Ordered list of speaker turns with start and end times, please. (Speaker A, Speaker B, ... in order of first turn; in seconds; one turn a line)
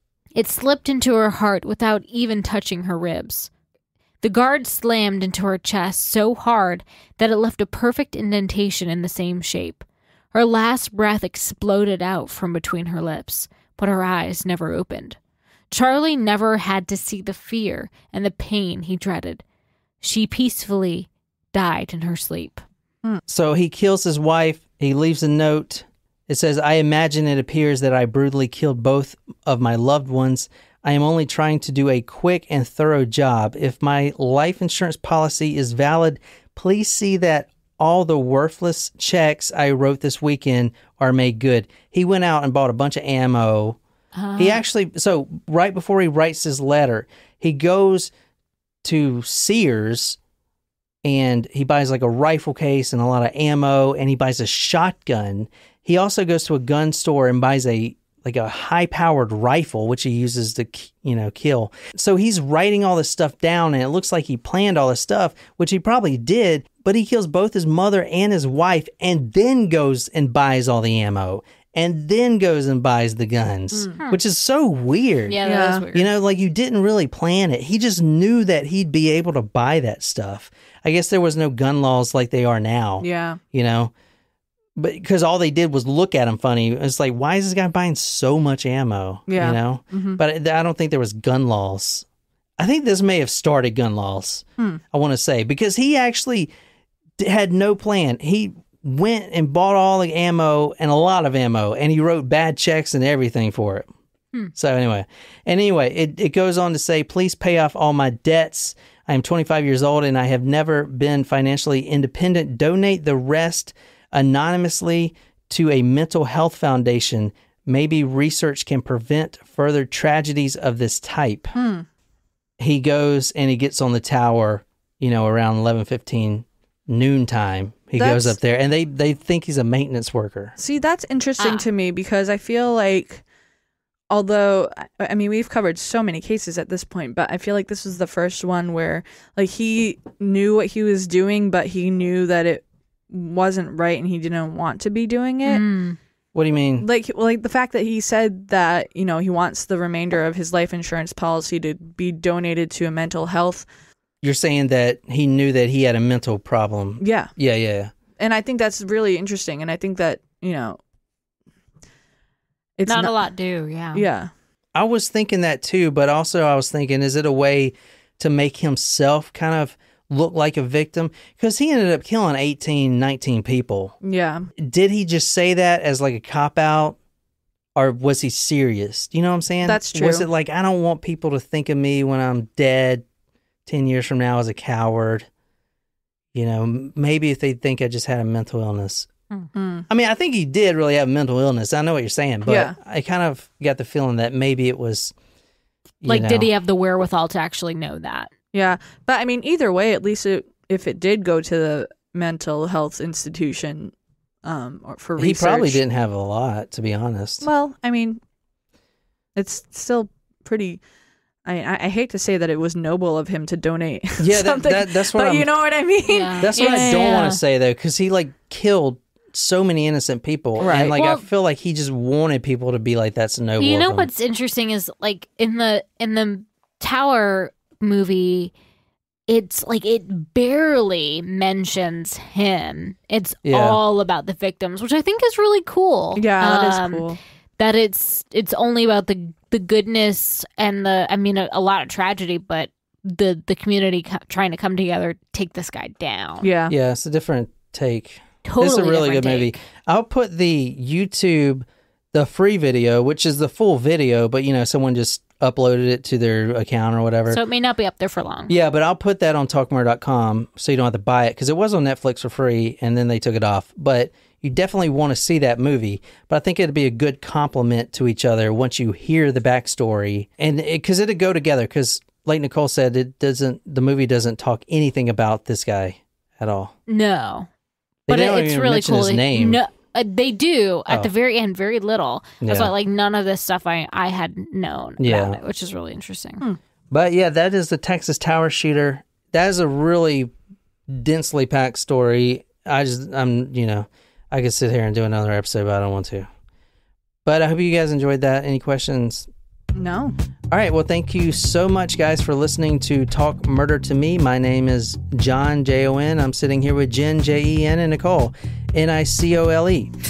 Speaker A: 0.3-3.5
Speaker A: 4.2-15.2
Speaker A: 15.7-19.4
Speaker A: 20.0-22.6
Speaker B: 23.3-43.8
Speaker A: 44.1-44.6
Speaker B: 44.4-48.1
Speaker B: 48.8-50.2
Speaker B: 51.0-75.4
Speaker C: 73.7-74.0
Speaker A: 75.3-76.0
Speaker C: 75.4-75.8
Speaker B: 75.9-83.9
Speaker C: 83.0-83.4
Speaker B: 84.8-92.0
Speaker C: 89.3-90.2
Speaker B: 92.6-96.5
Speaker B: 97.2-103.9
Speaker B: 104.5-121.5
Speaker C: 121.5-121.8
Speaker B: 122.6-130.5
Speaker C: 128.0-128.3
Speaker C: 130.6-133.2
Speaker A: 131.4-131.7
Speaker C: 134.1-145.6
Speaker A: 145.4-146.0
Speaker B: 146.3-146.9
Speaker C: 146.8-153.7
Speaker B: 154.2-157.9
Speaker C: 157.0-157.3
Speaker C: 158.2-160.8
Speaker C: 162.8-163.2
Speaker A: 162.9-164.0
Speaker C: 163.9-164.3
Speaker B: 164.7-173.9
Speaker C: 174.0-174.5
Speaker B: 174.6-177.0
Speaker B: 177.8-183.0
Speaker C: 179.6-180.2
Speaker B: 183.7-185.3
Speaker B: 186.3-189.1
Speaker C: 189.5-189.9
Speaker B: 189.9-195.1
Speaker C: 192.4-192.8
Speaker B: 196.0-196.5
Speaker A: 196.0-198.3
Speaker C: 198.5-203.9
Speaker C: 204.4-205.8
Speaker B: 205.2-207.5
Speaker C: 207.4-208.2
Speaker C: 209.3-210.8
Speaker C: 211.4-217.1
Speaker B: 214.2-215.5
Speaker A: 216.1-217.4
Speaker B: 216.4-224.1
Speaker C: 220.6-220.9
Speaker A: 220.7-221.2
Speaker A: 223.6-228.5
Speaker A: 229.3-237.1
Speaker B: 233.4-233.8
Speaker C: 236.2-237.2
Speaker A: 237.6-246.5
Speaker C: 246.4-246.7
Speaker B: 246.7-257.4
Speaker A: 248.4-249.6
Speaker A: 257.3-258.5
Speaker B: 258.5-276.7
Speaker A: 276.9-277.5
Speaker B: 278.1-279.6
Speaker A: 278.1-286.4
Speaker B: 282.4-282.7
Speaker B: 285.0-285.4
Speaker B: 286.9-290.3
Speaker B: 290.9-296.3
Speaker B: 297.2-299.3
Speaker C: 299.7-300.1
Speaker B: 300.5-309.9